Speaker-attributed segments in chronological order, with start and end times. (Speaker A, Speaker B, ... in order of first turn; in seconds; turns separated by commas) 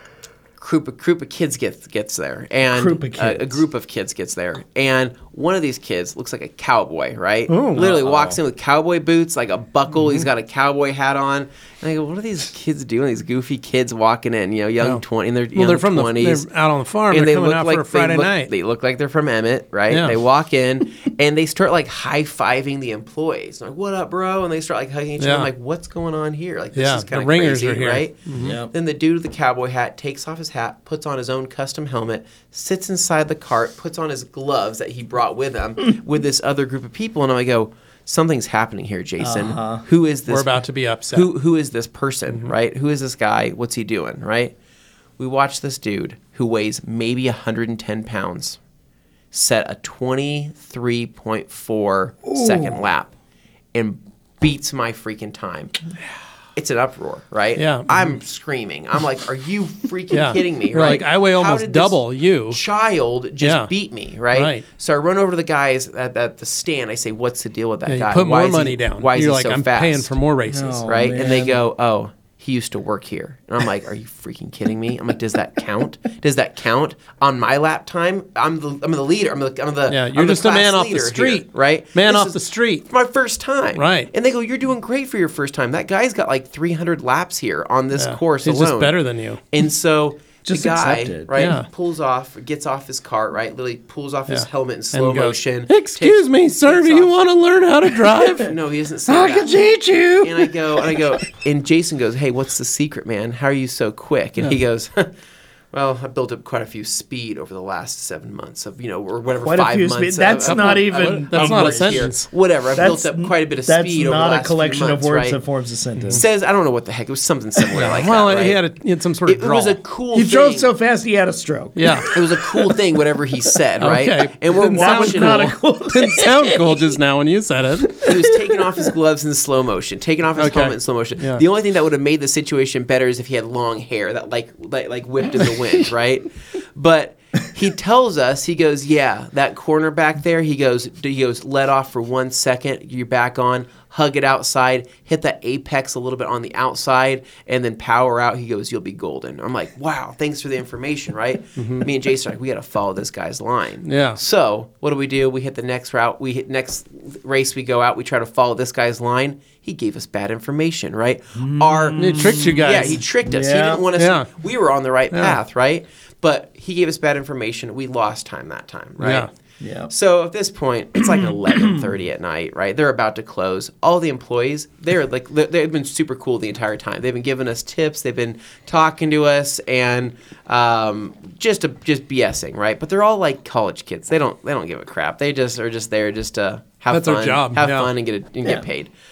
Speaker A: 0.6-16.4, Speaker B: 2.7-3.6, Speaker C: 7.5-7.9, Speaker B: 7.6-8.4, Speaker C: 15.5-18.5, Speaker A: 17.1-44.5, Speaker C: 19.9-20.1, Speaker C: 25.2-25.5, Speaker C: 26.8-28.6, Speaker B: 28.4-28.7, Speaker B: 39.2-39.8, Speaker C: 40.3-41.3, Speaker A: 45.2-48.6, Speaker A: 49.3-53.1, Speaker B: 52.2-52.8, Speaker A: 53.7-55.8, Speaker A: 56.5-70.1, Speaker C: 57.6-58.1, Speaker C: 60.1-62.6, Speaker C: 63.4-63.7, Speaker C: 64.3-64.6, Speaker C: 67.9-70.8, Speaker B: 70.5-71.6, Speaker A: 70.8-88.9, Speaker C: 79.9-82.8, Speaker C: 83.8-84.1, Speaker C: 87.9-89.4, Speaker A: 89.5-97.1, Speaker B: 90.4-91.4, Speaker C: 91.3-91.7, Speaker C: 94.3-98.5, Speaker A: 98.3-99.6, Speaker B: 99.1-101.1, Speaker A: 100.2-105.1, Speaker A: 105.7-115.4, Speaker B: 109.4-112.1, Speaker C: 110.4-112.3, Speaker B: 112.7-116.2, Speaker C: 116.0-116.2, Speaker A: 116.1-118.6, Speaker C: 117.7-119.8, Speaker A: 119.2-120.7, Speaker B: 120.1-123.0, Speaker C: 121.8-122.1, Speaker A: 122.1-125.5, Speaker C: 123.8-128.1, Speaker B: 124.6-126.8, Speaker B: 127.8-128.8, Speaker A: 128.0-169.3, Speaker C: 130.4-131.4, Speaker C: 151.6-151.9, Speaker C: 153.8-154.2, Speaker B: 161.3-163.9, Speaker C: 161.9-163.0, Speaker C: 163.9-164.3, Speaker C: 165.1-165.4, Speaker C: 169.0-169.3, Speaker B: 169.6-169.9, Speaker A: 169.9-188.9, Speaker B: 171.5-171.8, Speaker C: 186.9-187.9